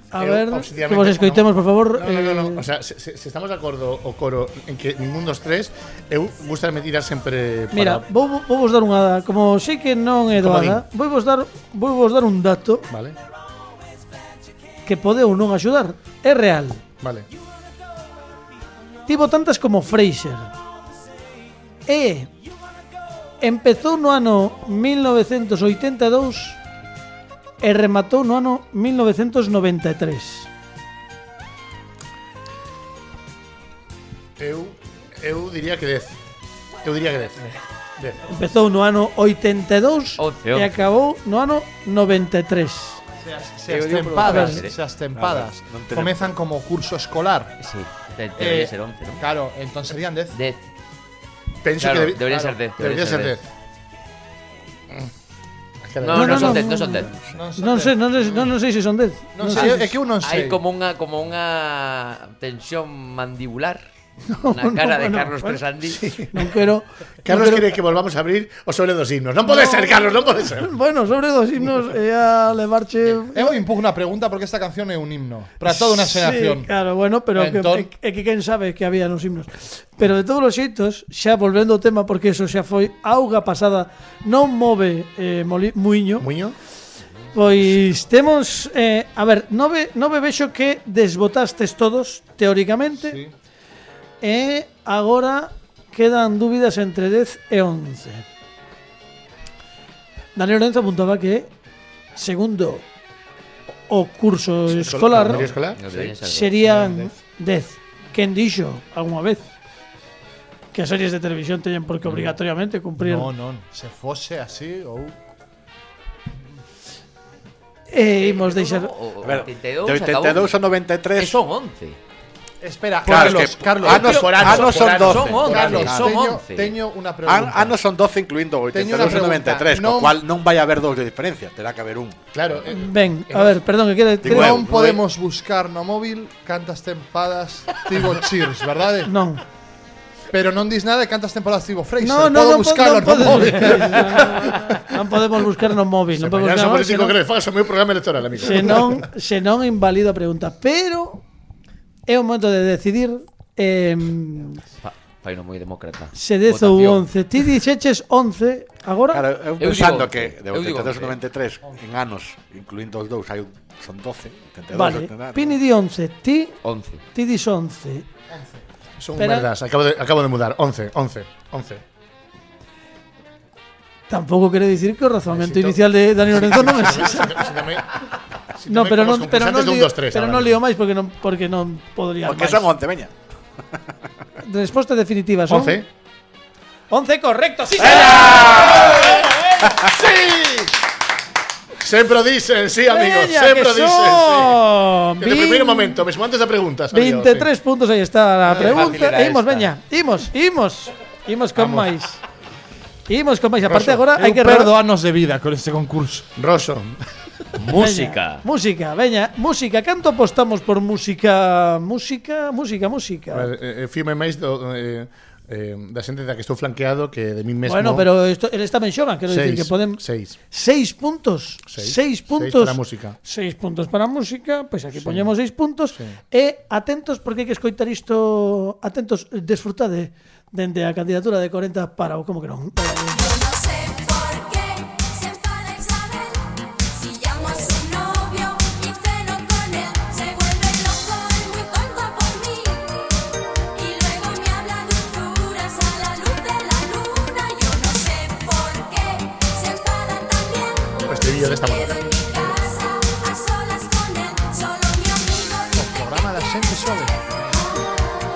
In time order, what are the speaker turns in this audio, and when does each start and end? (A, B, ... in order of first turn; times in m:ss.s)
0:00.1-0:02.6 A
0:00.2-0:08.0 B
0:07.7-0:12.9 A
0:10.3-0:10.8 B
0:12.9-0:13.2 B
0:14.9-0:16.8 A
0:17.0-0:17.3 B
0:19.1-0:20.5 A
0:21.9-0:22.3 A
0:23.4-0:26.6 A
0:27.6-0:30.5 A
0:34.4-0:36.2 B
0:36.8-0:38.2 B
0:38.3-0:43.0 A
0:40.2-0:40.8 C
0:43.2-0:47.6 D
0:43.7-0:44.8 C
0:44.2-0:44.6 A
0:45.2-0:46.3 E
0:47.6-0:49.2 C
0:48.4-0:50.4 D
0:50.3-0:50.6 C
0:51.6-0:53.4 B
0:51.8-0:53.4 C
0:55.8-0:56.6 B
0:56.0-0:57.3 C
0:56.1-0:57.0 A
0:57.3-0:58.1 D
0:57.6-0:59.8 A
0:59.4-1:00.6 D
0:59.6-1:03.9 C
1:04.3-1:05.6 A
1:04.5-1:06.0 C
1:05.9-1:06.4 B
1:06.3-1:07.7 A
1:07.2-1:10.7 B
1:09.4-1:13.6 A
1:13.3-1:16.7 D
1:15.7-1:26.3 A
1:17.4-1:17.8 B
1:26.2-1:26.6 B
1:27.3-1:33.2 A
1:33.0-1:33.3 D
1:34.2-1:38.2 A
1:40.4-1:41.5 A
1:42.2-1:42.9 A
1:43.9-1:45.5 A
1:44.7-1:45.9 B
1:45.8-1:46.7 C
1:46.2-1:49.5 A
1:46.7-1:47.0 D
1:50.7-1:53.3 A
1:53.0-1:55.2 D
1:57.9-1:58.9 A
1:58.2-2:00.6 C
1:59.2-2:01.4 E
2:01.2-2:02.0 C
2:02.6-2:07.8 D
2:03.0-2:06.2 E
2:03.1-2:06.8 C
2:03.9-2:05.9 B
2:07.3-2:12.2 E
2:08.7-2:10.2 D
2:12.3-2:13.6 B
2:12.7-2:14.6 A
2:14.2-2:15.0 E
2:14.2-2:19.1 D
2:19.0-2:19.4 A
2:20.3-2:24.5 D
2:22.0-2:27.2 A
2:26.1-2:29.0 B
2:28.4-2:31.2 A
2:32.1-2:34.6 A
2:34.8-2:37.1 C
2:36.2-2:39.2 A
2:39.1-2:45.6 E
2:39.6-2:41.2 C
2:44.7-2:46.6 A
2:46.6-2:47.0 C
2:47.2-2:48.1 A
2:48.3-2:48.6 D
2:49.0-2:51.8 B
2:49.2-2:49.5 A
2:54.1-2:57.5 A
2:55.3-2:58.0 B
2:58.6-3:00.6 B
2:58.7-3:02.7 A
3:02.2-3:03.1 E
3:04.4-3:05.8 A
3:05.5-3:05.9 B
3:06.9-3:09.2 A
3:07.8-3:08.9 E
3:09.9-3:10.7 B
3:11.8-3:14.6 B
3:12.9-3:16.0 A
3:15.2-3:17.5 B
3:16.9-3:22.2 A
3:18.5-3:19.7 C
3:21.6-3:21.9 B
3:23.1-3:24.7 A
3:23.6-3:24.1 B
3:24.2-3:26.3 D
3:26.4-3:27.0 B
3:27.6-3:28.4 C
3:27.7-3:33.5 A
3:33.3-3:38.1 B
3:37.6-3:53.2 A
3:39.3-3:40.4 B
3:41.7-3:43.2 B
3:45.0-3:45.3 B
3:53.1-4:03.1 F
4:03.7-4:15.8 F
4:11.1-4:12.1 B
4:15.7-4:17.6 D